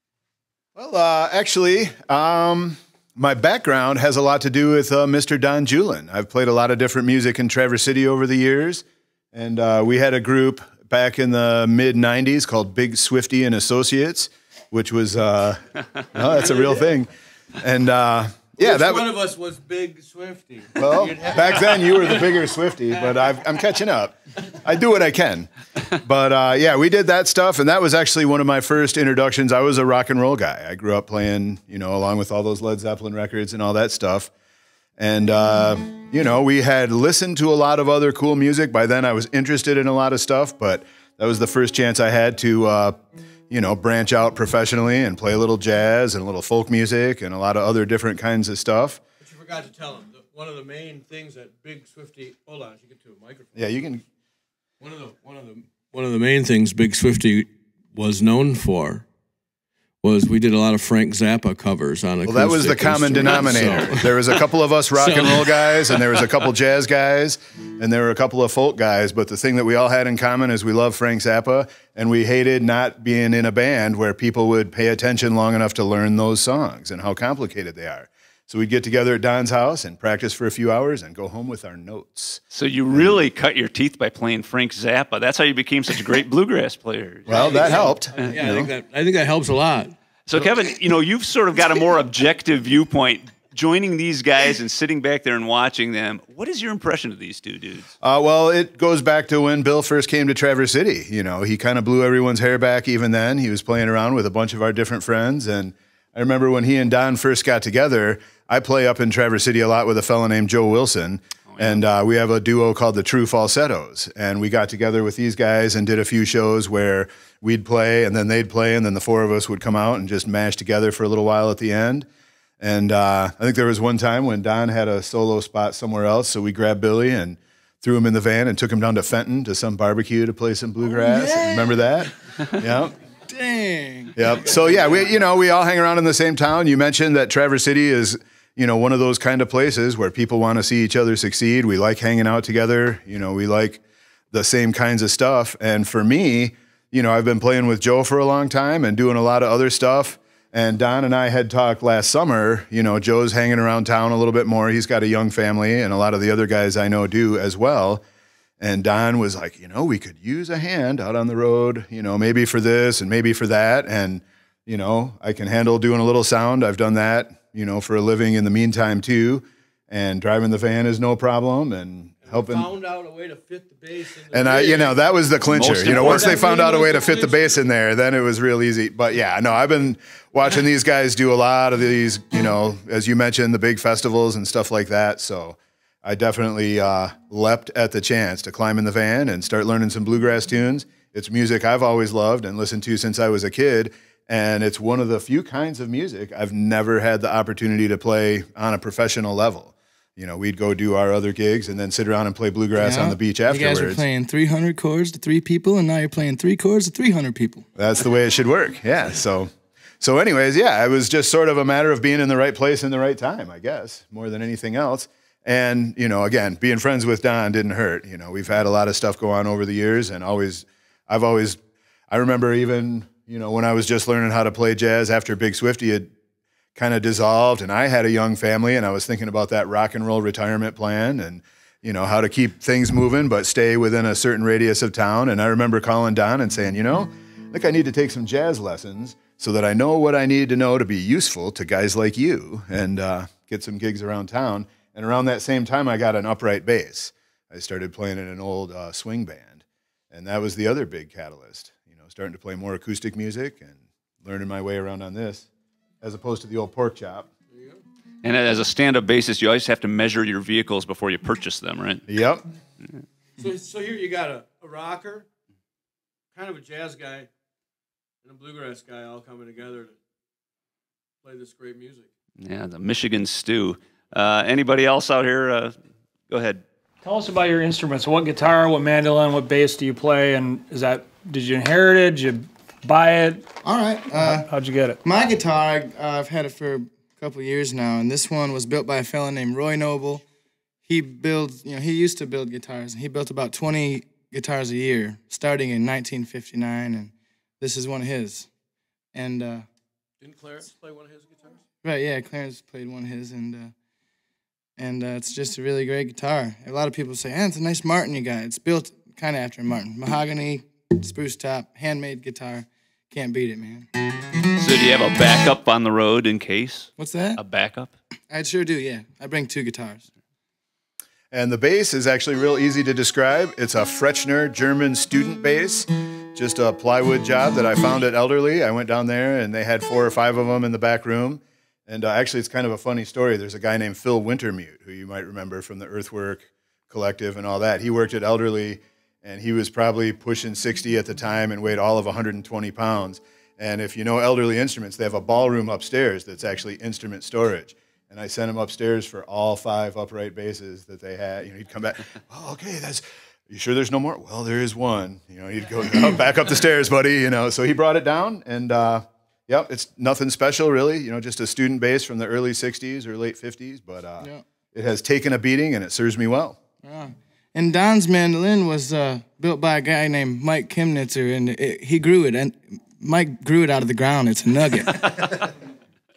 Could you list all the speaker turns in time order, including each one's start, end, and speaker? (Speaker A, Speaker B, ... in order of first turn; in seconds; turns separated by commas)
Speaker A: 0.8-15.6, Speaker A: 16.1-17.1, Speaker B: 16.2-16.9, Speaker A: 17.6-19.1, Speaker B: 18.6-22.4, Speaker A: 20.8-25.5, Speaker A: 26.0-34.3, Speaker A: 35.0-43.0, Speaker A: 43.5-49.0, Speaker B: 49.2-53.6, Speaker A: 53.6-54.0, Speaker B: 54.8-59.0, Speaker B: 60.0-64.4, Speaker A: 62.2-83.2, Speaker B: 65.0-66.0, Speaker C: 82.5-88.7, Speaker A: 87.3-88.3, Speaker B: 87.3-90.5, Speaker C: 90.3-97.9, Speaker A: 98.0-122.1, Speaker C: 111.5-111.8, Speaker A: 122.6-132.9, Speaker D: 130.8-132.1, Speaker D: 133.3-134.2, Speaker A: 134.2-158.0, Speaker A: 158.6-172.7, Speaker B: 172.2-177.6, Speaker A: 174.3-204.0, Speaker C: 175.5-176.4, Speaker D: 202.8-207.7, Speaker A: 207.8-226.1, Speaker A: 226.8-249.6, Speaker A: 250.1-255.4, Speaker A: 256.0-257.3, Speaker B: 257.5-257.8, Speaker C: 258.2-262.1, Speaker A: 262.1-262.4, Speaker B: 263.4-265.3, Speaker B: 266.3-267.3, Speaker B: 268.2-269.9, Speaker B: 271.2-272.1, Speaker C: 272.4-275.8, Speaker C: 276.3-276.6, Speaker E: 277.0-283.4, Speaker D: 283.6-284.5, Speaker E: 284.2-285.0, Speaker D: 285.0-290.2, Speaker D: 290.9-298.5, Speaker D: 299.1-299.7, Speaker B: 300.2-301.6, Speaker D: 301.8-303.7, Speaker D: 304.8-313.9, Speaker C: 314.6-317.9, Speaker D: 317.0-317.4, Speaker D: 318.3-320.1, Speaker A: 321.3-366.6, Speaker D: 366.8-375.0, Speaker B: 374.9-375.4